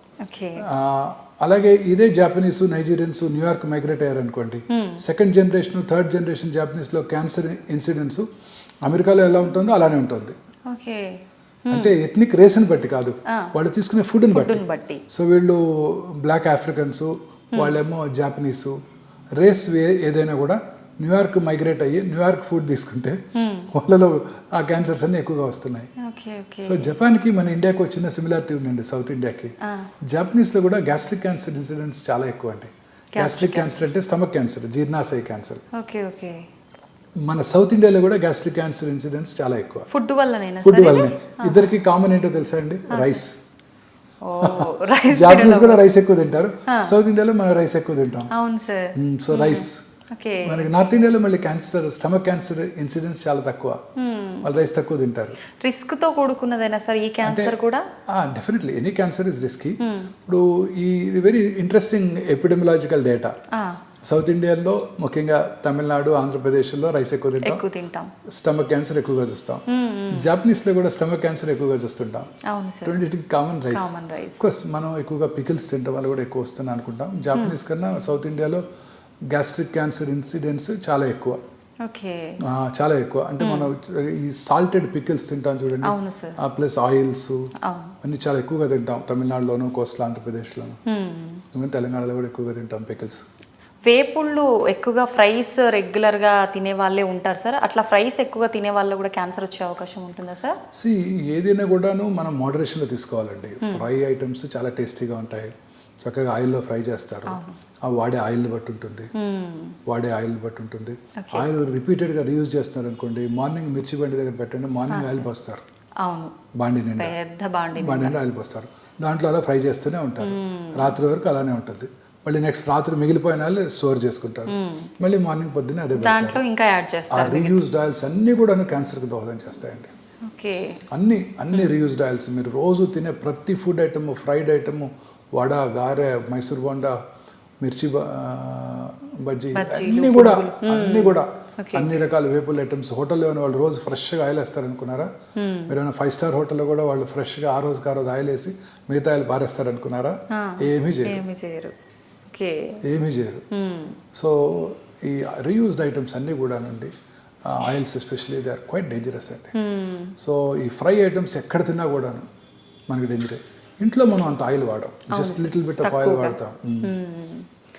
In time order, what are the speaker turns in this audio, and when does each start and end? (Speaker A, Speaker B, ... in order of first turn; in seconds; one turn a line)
Speaker A: 0.2-0.6
Speaker B: 0.6-8.2
Speaker A: 4.7-5.0
Speaker B: 8.9-10.4
Speaker A: 10.7-11.9
Speaker B: 11.7-18.8
Speaker A: 14.3-15.0
Speaker B: 19.4-25.9
Speaker A: 23.4-23.7
Speaker A: 26.0-26.9
Speaker B: 26.6-29.5
Speaker B: 30.1-35.6
Speaker A: 33.1-33.8
Speaker A: 35.8-36.4
Speaker B: 37.3-39.9
Speaker A: 39.9-41.7
Speaker B: 40.6-43.4
Speaker A: 42.9-43.2
Speaker A: 44.2-45.8
Speaker B: 44.4-48.3
Speaker A: 46.7-46.9
Speaker A: 48.3-50.6
Speaker B: 49.0-49.8
Speaker B: 50.4-53.8
Speaker A: 54.0-54.5
Speaker B: 54.4-55.4
Speaker A: 55.6-57.9
Speaker B: 57.2-57.6
Speaker B: 58.1-63.3
Speaker A: 59.8-60.1
Speaker B: 64.1-67.6
Speaker A: 67.4-68.1
Speaker B: 68.3-72.3
Speaker A: 69.7-70.3
Speaker A: 72.5-73.0
Speaker B: 72.8-78.6
Speaker A: 73.7-74.4
Speaker B: 79.3-81.4
Speaker A: 81.8-82.4
Speaker B: 82.4-87.4
Speaker A: 83.4-83.7
Speaker A: 85.8-86.4
Speaker A: 87.6-88.0
Speaker B: 88.0-90.8
Speaker A: 90.9-91.4
Speaker B: 91.5-93.2
Speaker A: 93.9-100.6
Speaker B: 100.8-105.5
Speaker B: 106.0-109.1
Speaker A: 107.3-107.6
Speaker A: 109.2-109.8
Speaker B: 109.9-115.6
Speaker A: 111.2-111.5
Speaker A: 114.9-115.3
Speaker A: 116.0-116.3
Speaker B: 116.6-117.1
Speaker A: 117.0-118.2
Speaker B: 117.8-126.4
Speaker A: 120.2-121.0
Speaker A: 124.5-124.9
Speaker A: 126.0-127.6
Speaker B: 127.1-129.9
Speaker A: 130.3-130.8
Speaker B: 130.9-137.0
Speaker B: 137.6-145.1
Speaker A: 139.6-141.9
Speaker A: 145.4-145.7
Speaker B: 145.7-151.2
Speaker A: 150.3-151.7
Speaker A: 152.3-152.8
Speaker B: 152.8-153.4
Speaker A: 153.5-154.0
Speaker B: 154.1-156.9
Speaker B: 157.5-159.5
Speaker A: 159.6-160.1
Speaker B: 160.2-162.3
Speaker B: 162.9-166.9
Speaker A: 165.1-167.5